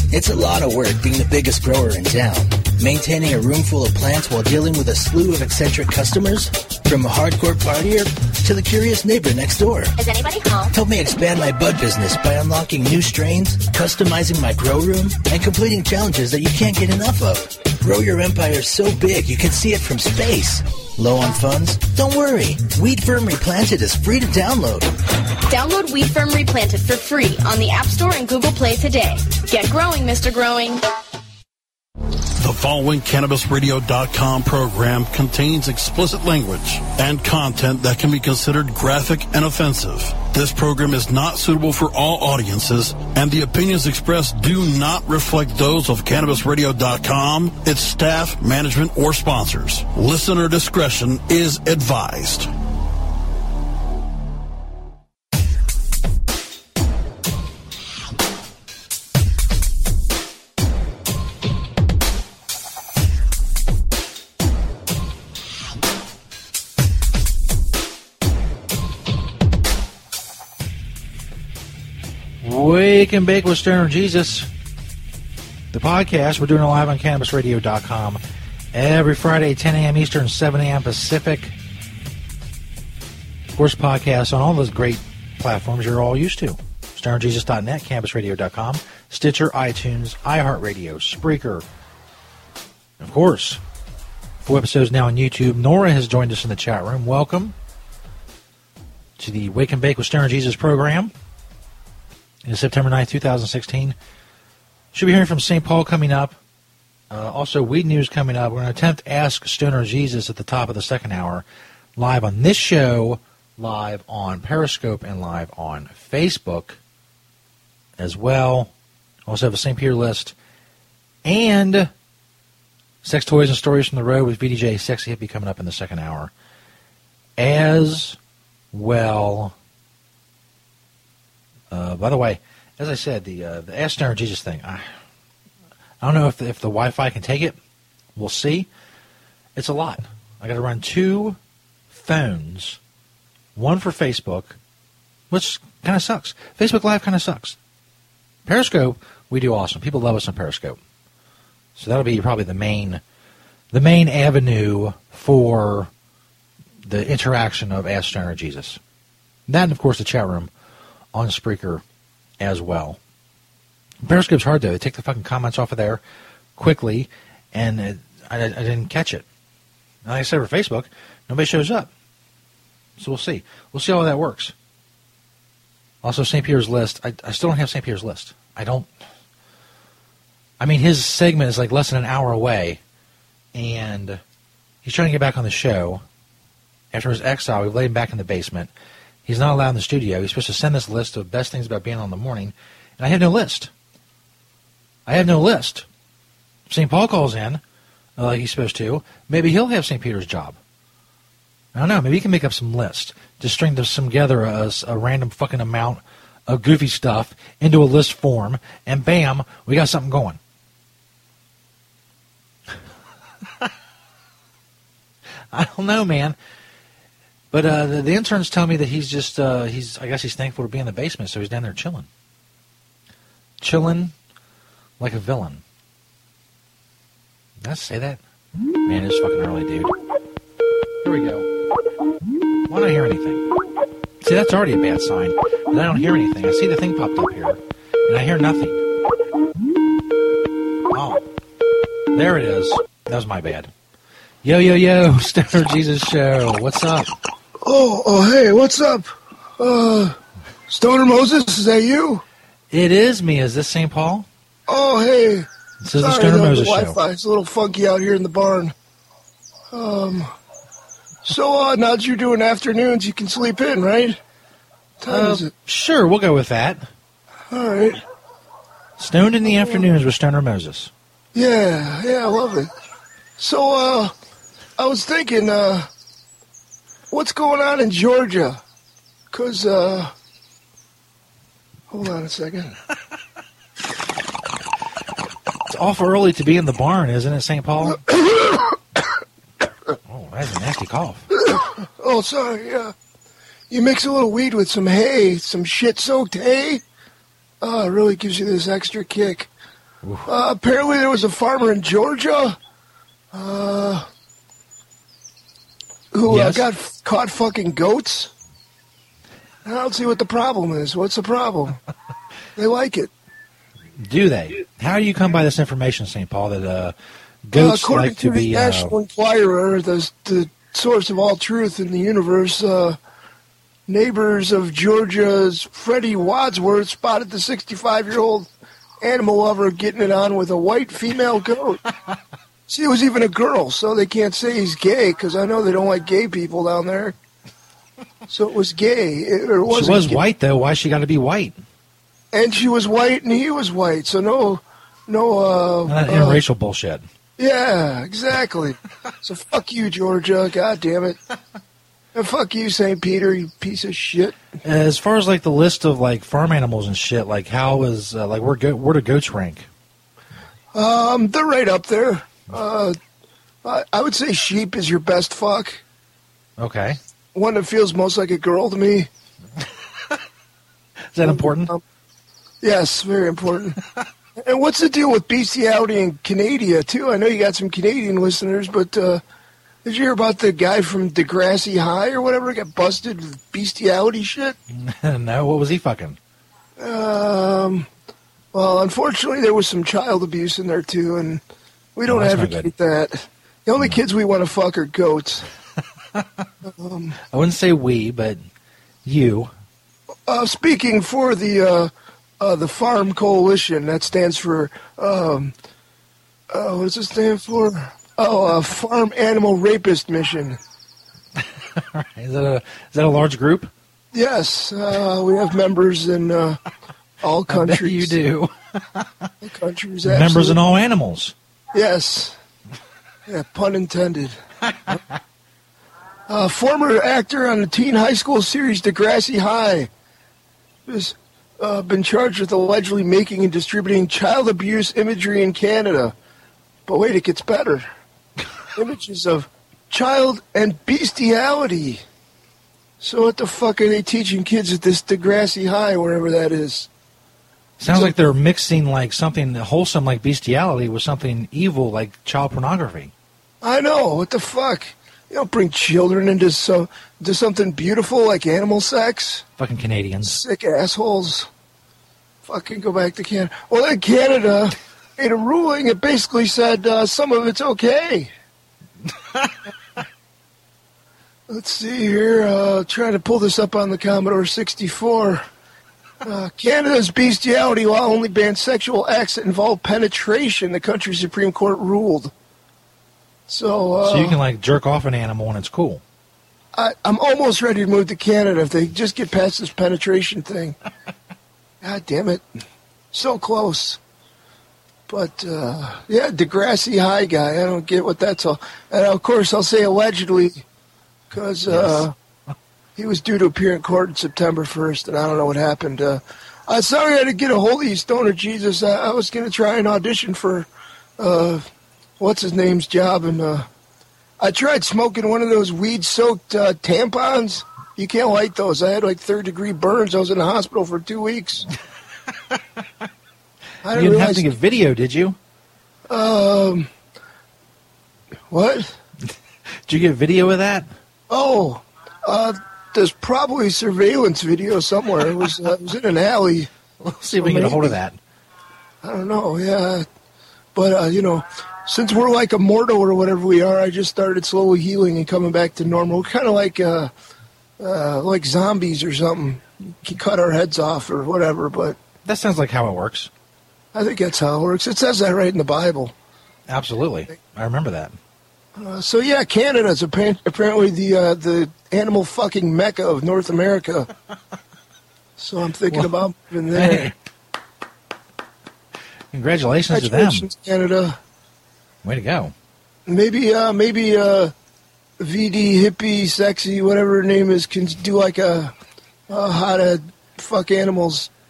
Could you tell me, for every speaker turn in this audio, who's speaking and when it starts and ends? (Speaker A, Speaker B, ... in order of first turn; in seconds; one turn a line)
Speaker A: 0.1-9.9
Speaker B: 10.0-10.7
Speaker A: 10.7-24.9
Speaker B: 25.5-30.8
Speaker C: 32.4-52.5
Speaker D: 72.4-74.5
Speaker D: 75.7-78.2
Speaker D: 78.7-81.5
Speaker D: 83.5-91.6
Speaker D: 93.0-93.6
Speaker D: 94.4-97.5
Speaker D: 99.2-101.1
Speaker D: 102.5-104.0
Speaker D: 104.9-106.4
Speaker D: 107.1-111.4
Speaker D: 112.0-116.8
Speaker D: 118.0-118.7
Speaker D: 119.3-120.3
Speaker D: 121.2-121.9
Speaker D: 123.0-126.3
Speaker D: 127.4-128.2
Speaker D: 128.7-129.5
Speaker D: 131.7-134.9
Speaker D: 136.0-137.6
Speaker D: 138.2-138.7
Speaker D: 139.5-141.4
Speaker D: 141.9-142.8
Speaker D: 143.5-144.6
Speaker D: 145.3-147.6
Speaker D: 148.4-150.8
Speaker D: 151.8-153.0
Speaker D: 153.7-155.9
Speaker D: 156.8-158.8
Speaker D: 159.5-160.5
Speaker D: 161.1-161.8
Speaker D: 162.4-163.0
Speaker D: 164.0-166.0
Speaker D: 166.6-169.2
Speaker D: 170.0-171.9
Speaker D: 173.0-174.5
Speaker D: 176.0-178.9
Speaker D: 180.6-182.8
Speaker D: 183.5-184.2
Speaker D: 184.8-186.0
Speaker D: 186.9-188.7
Speaker D: 189.2-193.7
Speaker D: 195.1-195.8
Speaker D: 196.7-197.6
Speaker D: 198.2-200.6
Speaker D: 201.7-210.4
Speaker D: 215.5-216.3
Speaker D: 217.5-222.1
Speaker D: 223.6-224.1
Speaker D: 225.0-225.6
Speaker D: 227.6-228.2
Speaker D: 228.8-229.9
Speaker D: 231.0-231.5
Speaker D: 232.7-233.4
Speaker D: 234.2-238.8
Speaker D: 240.9-241.2
Speaker D: 242.1-243.7
Speaker D: 244.4-247.1
Speaker E: 247.6-249.1
Speaker E: 249.6-250.2
Speaker E: 250.7-252.2
Speaker D: 252.7-254.3
Speaker E: 254.7-255.5
Speaker D: 255.8-257.0
Speaker E: 256.0-258.7
Speaker E: 259.7-260.3
Speaker E: 261.2-264.2
Speaker E: 265.0-265.5
Speaker D: 265.1-266.9
Speaker E: 267.5-268.0
Speaker D: 269.0-270.9
Speaker E: 271.3-272.7
Speaker E: 273.4-274.1
Speaker E: 274.8-275.9
Speaker E: 277.1-278.6
Speaker E: 279.3-280.1
Speaker E: 281.9-282.7
Speaker D: 285.7-288.0
Speaker D: 290.1-291.2
Speaker E: 291.4-292.9
Speaker E: 293.7-296.8
Speaker E: 297.6-299.5
Speaker D: 300.0-300.3
Speaker E: 300.3-302.6
Speaker E: 303.3-304.1
Speaker E: 306.1-308.3
Speaker D: 306.3-306.6
Speaker E: 309.6-311.8
Speaker E: 312.6-313.1
Speaker D: 314.0-316.9
Speaker D: 317.5-318.9
Speaker E: 317.5-323.0
Speaker E: 323.9-328.5
Speaker E: 329.0-331.8
Speaker E: 332.7-337.1
Speaker E: 338.3-340.2
Speaker D: 339.7-341.6
Speaker E: 342.3-346.4
Speaker D: 345.9-347.0
Speaker E: 347.4-351.2
Speaker E: 352.1-354.4
Speaker D: 354.6-359.7
Speaker E: 360.7-362.9
Speaker E: 363.6-365.8
Speaker D: 366.6-367.0
Speaker E: 367.3-369.1
Speaker D: 371.1-371.7
Speaker E: 371.2-371.8
Speaker E: 372.6-373.8
Speaker E: 374.4-379.2
Speaker E: 379.8-384.6
Speaker D: 384.7-386.2
Speaker E: 386.8-387.9
Speaker E: 388.5-391.4
Speaker E: 391.9-395.4
Speaker D: 392.1-392.7
Speaker E: 396.6-397.2
Speaker D: 397.2-398.5
Speaker D: 399.0-399.5
Speaker E: 400.3-405.5
Speaker E: 406.5-410.6
Speaker D: 411.4-413.7
Speaker E: 414.1-416.6
Speaker E: 417.2-418.1
Speaker D: 417.5-419.3
Speaker E: 419.4-420.6
Speaker D: 420.0-421.3
Speaker E: 421.7-422.4
Speaker E: 423.3-424.4
Speaker E: 426.3-429.9
Speaker E: 430.9-436.1
Speaker E: 436.9-437.9
Speaker E: 438.8-442.0
Speaker E: 443.0-446.9
Speaker D: 447.8-453.1
Speaker E: 447.9-448.1
Speaker E: 453.6-459.4
Speaker D: 459.6-460.4
Speaker E: 460.2-461.5
Speaker E: 462.4-468.3
Speaker E: 471.5-475.4
Speaker E: 476.2-482.3
Speaker E: 483.5-484.4
Speaker D: 484.0-486.0
Speaker E: 486.7-490.8
Speaker E: 491.8-492.4
Speaker E: 493.1-494.0
Speaker E: 495.1-500.6
Speaker E: 501.3-502.1
Speaker D: 501.7-502.5
Speaker E: 502.9-511.7
Speaker E: 512.2-513.7
Speaker E: 514.4-521.6
Speaker E: 523.8-524.5
Speaker D: 523.9-525.4
Speaker E: 526.1-526.9
Speaker E: 528.5-529.0
Speaker D: 529.9-530.9
Speaker E: 531.3-536.7
Speaker D: 537.0-538.2
Speaker E: 537.4-538.0
Speaker E: 539.0-540.0
Speaker E: 540.7-547.1
Speaker E: 547.8-552.0
Speaker D: 552.2-553.3
Speaker E: 553.9-556.1
Speaker D: 556.7-558.2
Speaker E: 558.8-564.1
Speaker E: 565.4-567.1
Speaker D: 566.7-567.1
Speaker D: 569.3-570.5
Speaker E: 569.9-571.2
Speaker D: 572.0-572.5
Speaker E: 573.1-574.5
Speaker E: 575.2-578.7
Speaker E: 579.3-581.3